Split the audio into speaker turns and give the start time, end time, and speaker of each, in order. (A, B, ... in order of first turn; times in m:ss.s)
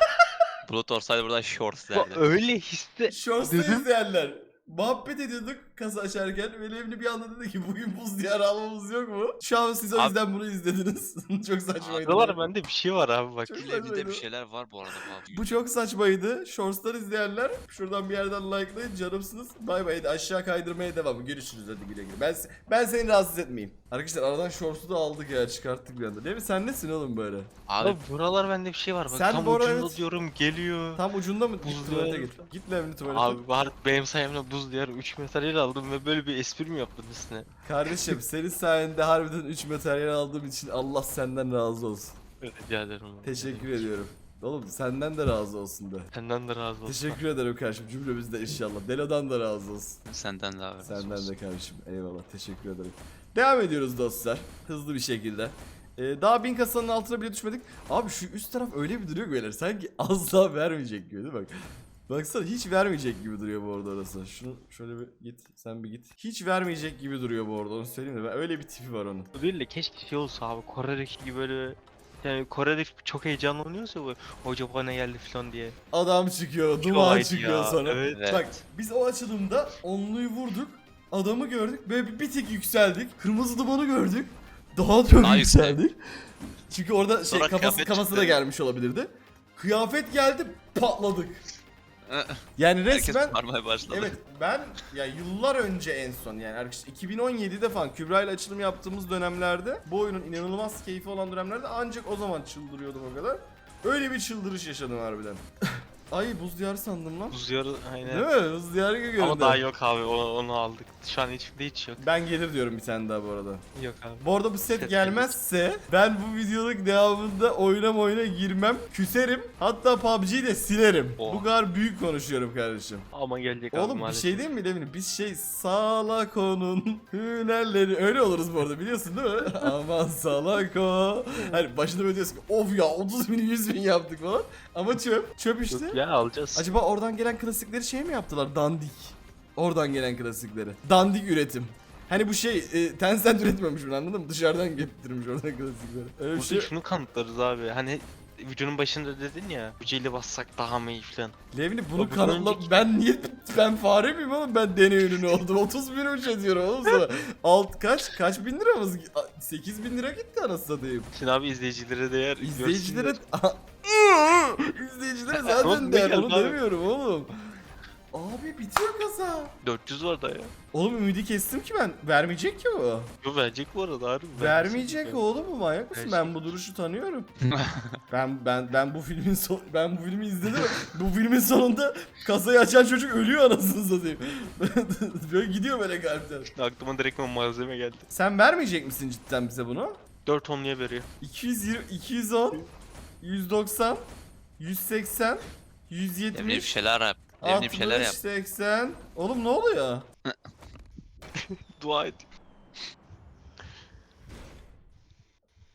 0:00.6-0:02.2 A
0:01.9-0:03.8 B
0:03.1-0:12.3 C
0:11.8-0:12.2 A
0:12.0-0:13.6 B
0:13.5-0:14.2 C
0:13.5-0:15.6 A
0:15.3-0:27.5 C
0:27.7-0:28.0 A
0:27.8-0:31.0 B
0:29.1-0:30.0 C
0:30.9-0:33.4 C
0:31.6-0:32.4 B
0:33.1-0:37.5 B
0:37.6-0:42.1 C
0:42.4-0:43.9 B
0:43.2-0:46.1 C
0:46.1-0:47.2 B
0:46.8-0:50.0 C
0:50.0-0:51.3 A
0:50.8-1:01.5 C
1:02.1-1:09.3 C
1:09.3-1:15.8 B
1:15.9-1:26.0 C
1:16.8-1:18.3 B
1:18.1-1:18.5 A
1:25.2-1:25.8 A
1:26.6-1:31.4 C
1:27.3-1:28.4 A
1:32.1-1:34.2 A
1:32.6-1:45.4 C
1:46.1-1:47.4 C
1:47.3-1:48.3 B
1:48.0-1:49.6 C
1:49.2-1:52.0 B
1:52.0-1:53.6 C
1:53.7-1:55.3 B
1:54.2-2:03.1 C
2:01.2-2:01.4 B
2:03.1-2:04.5 B
2:03.7-2:16.0 C
2:15.7-2:16.7 B
2:16.5-2:26.7 C
2:26.3-2:31.4 B
2:31.5-2:41.1 C
2:32.0-2:32.8 B
2:41.1-2:43.2 B
2:42.4-2:47.3 C
2:45.4-2:46.6 B
2:48.1-2:49.5 C
2:49.6-2:50.5 B
2:50.7-2:53.1 C
2:53.2-2:55.2 B
2:54.4-2:57.3 C
2:55.9-2:56.5 B
2:57.5-2:57.9 A
2:58.1-3:06.5 C
3:06.5-3:08.1 B
3:08.1-3:10.0 C
3:10.2-3:11.1 B
3:11.2-3:12.6 C
3:13.2-3:14.0 C
3:14.6-3:16.8 C
3:16.3-3:18.2 A
3:17.4-3:20.0 C
3:21.7-3:22.3 B